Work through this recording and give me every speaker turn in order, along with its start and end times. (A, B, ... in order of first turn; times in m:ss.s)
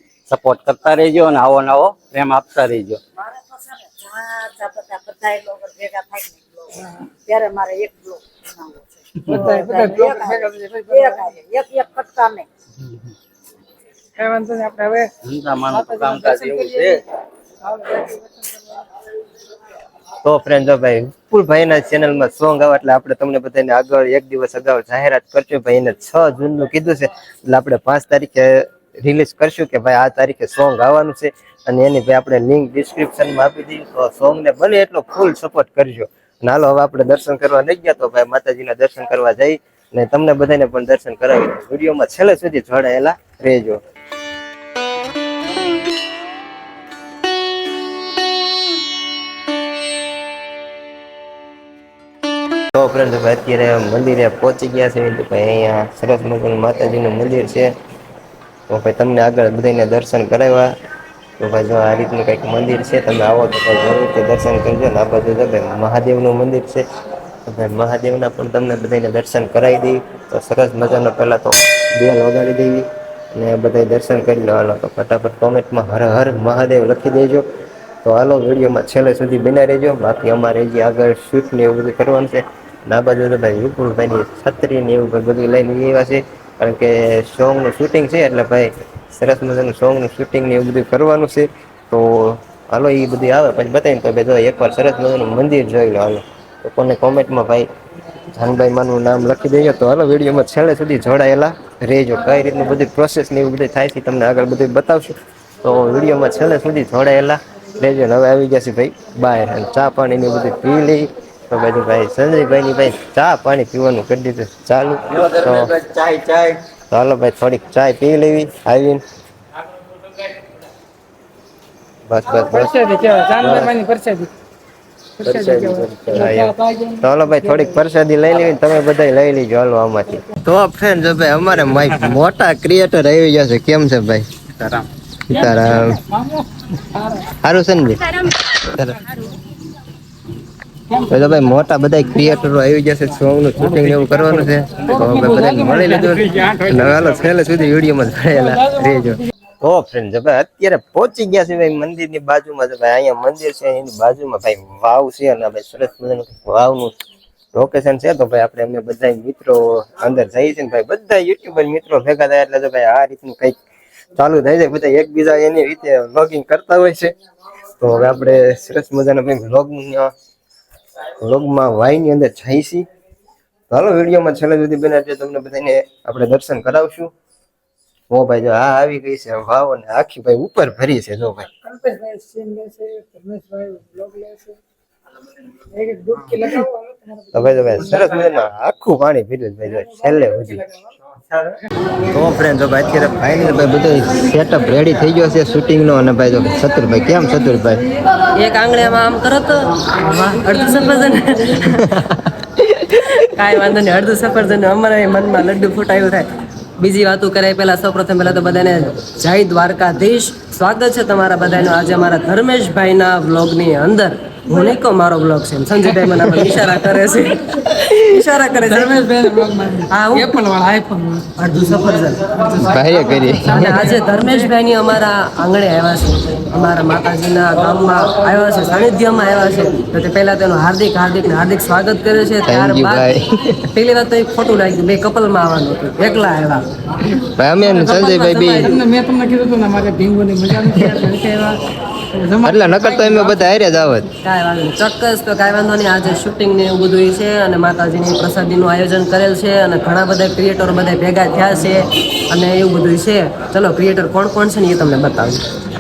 0:00.3-0:03.0 A
0:03.2-0:12.5 B
0:09.3-0:11.2 C
0:14.2-0:15.1 C
0:15.2-0:17.0 A
0:15.7-0:16.9 C
0:17.6-0:18.5 C
0:20.2-0:43.8 D
0:52.7-0:57.7 D
0:58.7-1:00.7 D
1:01.4-1:06.8 D
1:07.5-1:17.5 D
1:18.0-1:37.7 D
1:38.3-1:55.7 D
1:55.3-1:56.6 A
1:56.9-1:59.0 D
2:02.1-2:02.8 D
2:02.3-2:04.3 C
2:03.4-2:03.7 D
2:05.2-2:07.7 C
2:05.2-2:14.3 D
2:15.3-2:16.0 D
2:15.3-2:17.3 C
2:17.4-2:19.0 D
2:21.1-2:37.0 D
2:24.8-2:26.8 C
2:28.4-2:29.2 C
2:37.5-2:43.6 D
2:44.2-2:47.2 D
2:47.8-2:50.1 D
2:51.2-2:52.9 D
2:53.7-2:57.1 D
2:58.1-3:01.5 D
3:01.6-3:04.6 C
3:05.7-3:07.4 C
3:07.3-3:10.7 D
3:09.9-3:10.8 C
3:12.1-3:17.8 D
3:18.4-3:21.8 E
3:21.7-3:23.2 D
3:23.2-3:26.3 E
3:26.8-3:38.9 E
3:38.5-3:41.3 C
3:39.9-3:40.4 E
3:41.4-3:42.4 E
3:42.6-3:43.8 D
3:43.5-3:44.5 C
3:43.5-3:53.1 E
3:52.5-3:53.6 D
3:53.7-3:56.6 E
3:57.4-3:58.7 D
3:57.7-3:58.8 E
3:58.6-4:01.6 C
4:02.2-4:03.4 C
4:02.4-4:04.1 D
4:04.2-4:15.4 E